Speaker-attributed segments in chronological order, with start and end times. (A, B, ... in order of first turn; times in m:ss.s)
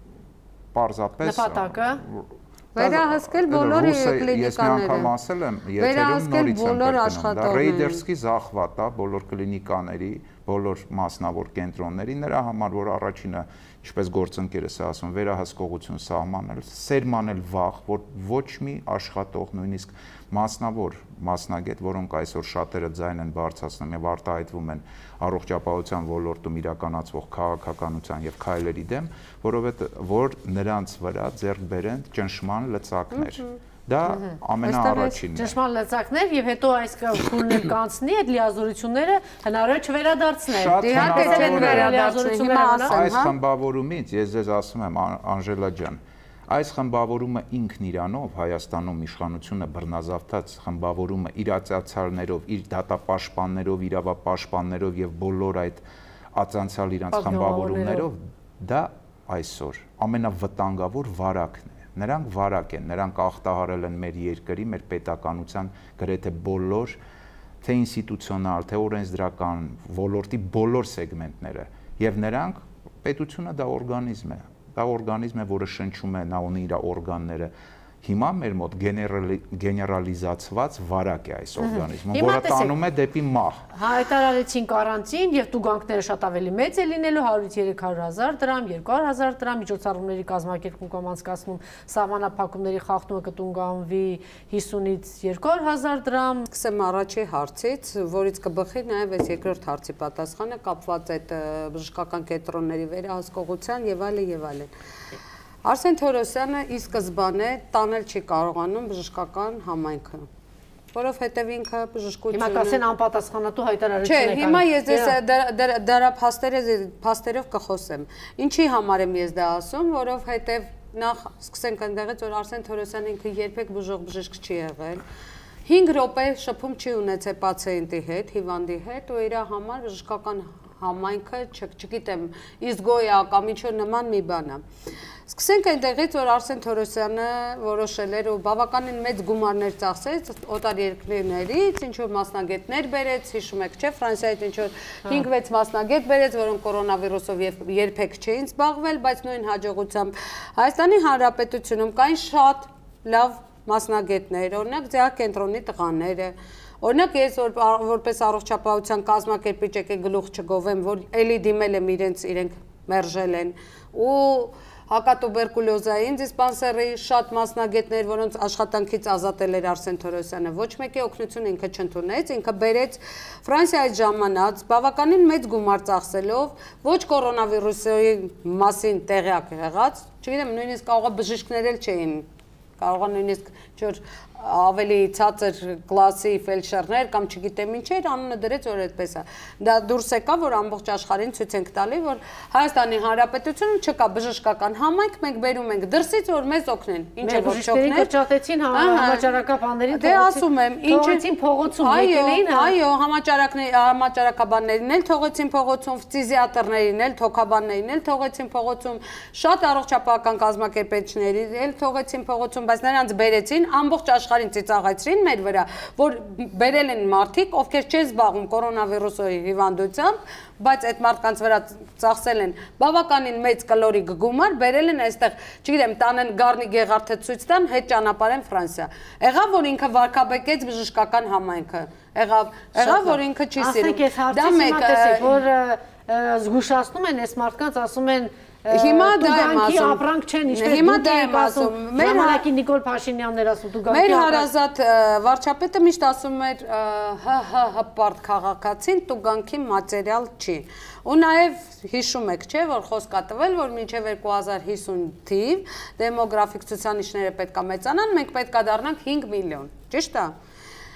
0:00.7-0:35.5 A
0:01.2-0:02.0 B
0:02.7-0:05.1 C
0:05.8-0:08.0 C
0:33.1-0:33.5 C
0:34.6-0:35.2 C
0:35.3-0:43.0 B
0:40.5-0:41.9 A
0:40.8-0:43.3 C
0:42.9-1:07.0 A
0:57.1-0:58.1 B
1:07.6-1:17.5 A
1:18.0-1:23.6 A
1:21.6-1:22.7 B
1:23.7-1:36.5 B
1:36.5-1:44.7 C
1:45.6-1:50.3 C
1:50.9-1:52.8 C
1:52.3-1:55.2 B
1:54.0-2:05.0 C
2:05.6-2:14.6 C
2:15.3-3:02.3 C
3:02.8-3:18.1 C
3:17.2-3:22.7 B
3:18.7-3:19.3 C
3:19.9-3:55.4 C
3:52.8-4:04.5 B
3:58.7-4:02.4 C
4:03.9-4:20.3 C